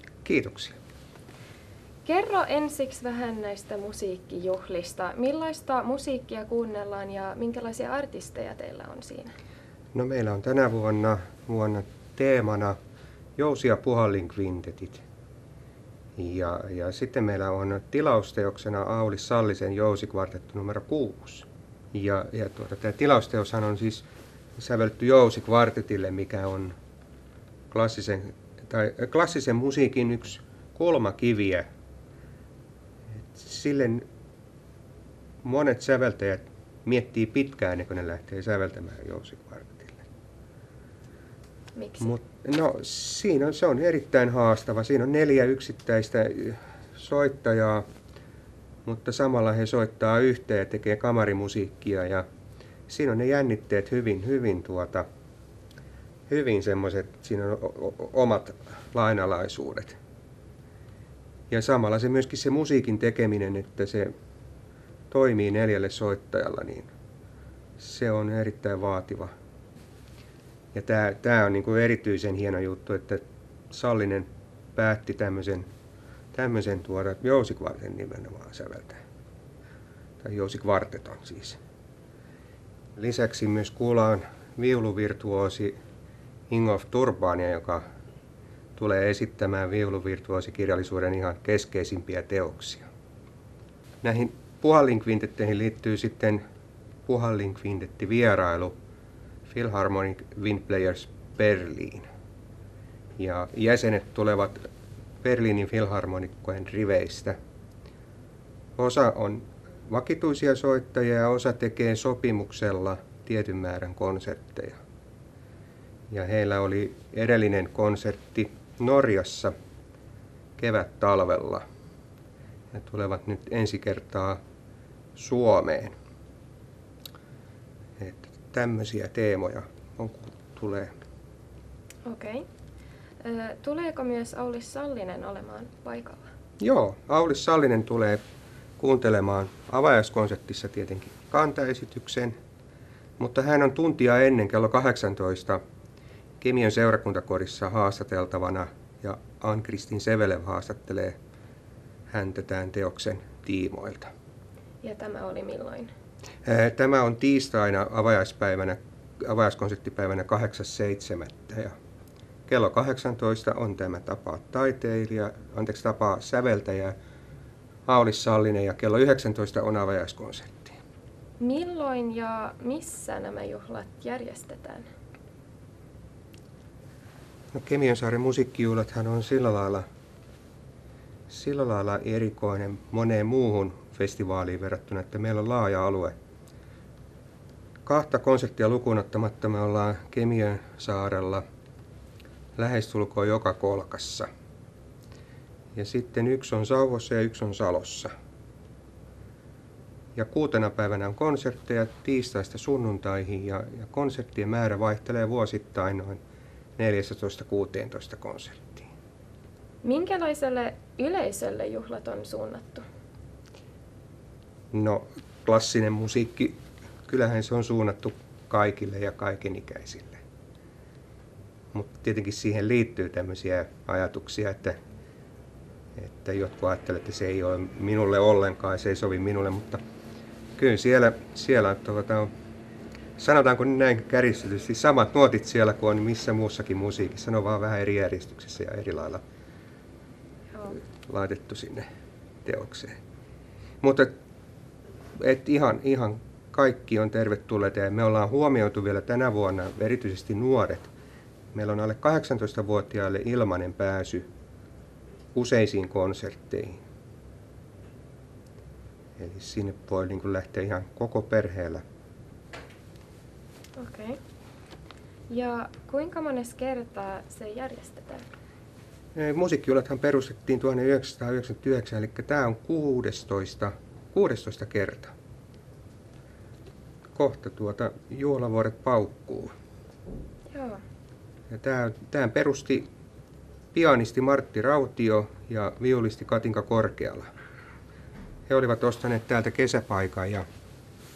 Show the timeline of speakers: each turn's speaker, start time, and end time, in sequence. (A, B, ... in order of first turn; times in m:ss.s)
0:00.2-0:00.8 A
0:02.0-0:09.3 B
0:09.9-0:12.8 A
0:13.4-0:15.0 A
0:16.2-0:24.0 A
0:24.6-0:26.7 A
0:27.7-0:31.6 A
0:33.1-0:34.0 A
0:35.4-0:40.0 A
0:41.7-0:42.1 B
0:42.0-0:47.8 A
0:48.8-0:52.2 A
0:52.9-0:55.0 A
0:56.3-1:00.0 A
1:01.5-1:04.1 A
1:05.1-1:06.9 A
1:07.8-1:09.3 A
1:10.7-1:15.6 A
1:16.3-1:19.0 A
1:20.2-1:21.6 A
1:23.0-1:25.8 A
1:26.5-1:27.8 A
1:28.8-1:32.8 A
1:34.0-1:36.4 A
1:37.0-1:38.7 A
1:39.5-1:42.1 A
1:43.2-1:44.7 A
1:45.2-1:47.3 A
1:48.8-1:54.8 A
1:56.1-1:59.5 A
2:00.6-2:01.6 A
2:02.7-2:04.4 A
2:05.2-2:05.9 A
2:08.0-2:10.9 A
2:12.0-2:12.4 B
2:13.2-2:16.3 B
2:16.6-2:18.2 A
2:18.8-2:22.3 A
2:23.2-2:25.6 A
2:26.4-2:31.2 A
2:32.1-2:34.1 A
2:34.8-2:35.9 B
2:36.4-2:41.7 A
2:42.5-2:46.9 A
2:47.9-2:50.8 A
2:51.4-2:54.9 B
2:57.5-2:59.8 A
3:01.3-3:06.1 A
3:07.8-3:11.4 A
3:12.6-3:14.3 A
3:15.7-3:18.1 A
3:20.1-3:26.2 A
3:26.8-3:28.9 A
3:29.8-3:32.8 B
3:34.7-3:40.2 A
3:41.7-3:44.8 A
3:46.0-3:49.8 A
3:50.6-3:52.3 A
3:53.2-3:59.2 A
4:01.0-4:01.9 A
4:02.4-4:03.0 A
4:03.8-4:04.1 A
4:05.2-4:10.9 A
4:11.5-4:14.3 A
4:15.3-4:16.8 A
4:19.2-4:21.8 A
4:23.8-4:24.2 B
4:25.3-4:28.2 B
4:29.1-4:35.1 A
4:37.1-4:39.5 A
4:40.5-4:40.8 B
4:41.5-4:42.8 A
4:43.7-4:47.3 A
4:48.5-4:50.4 A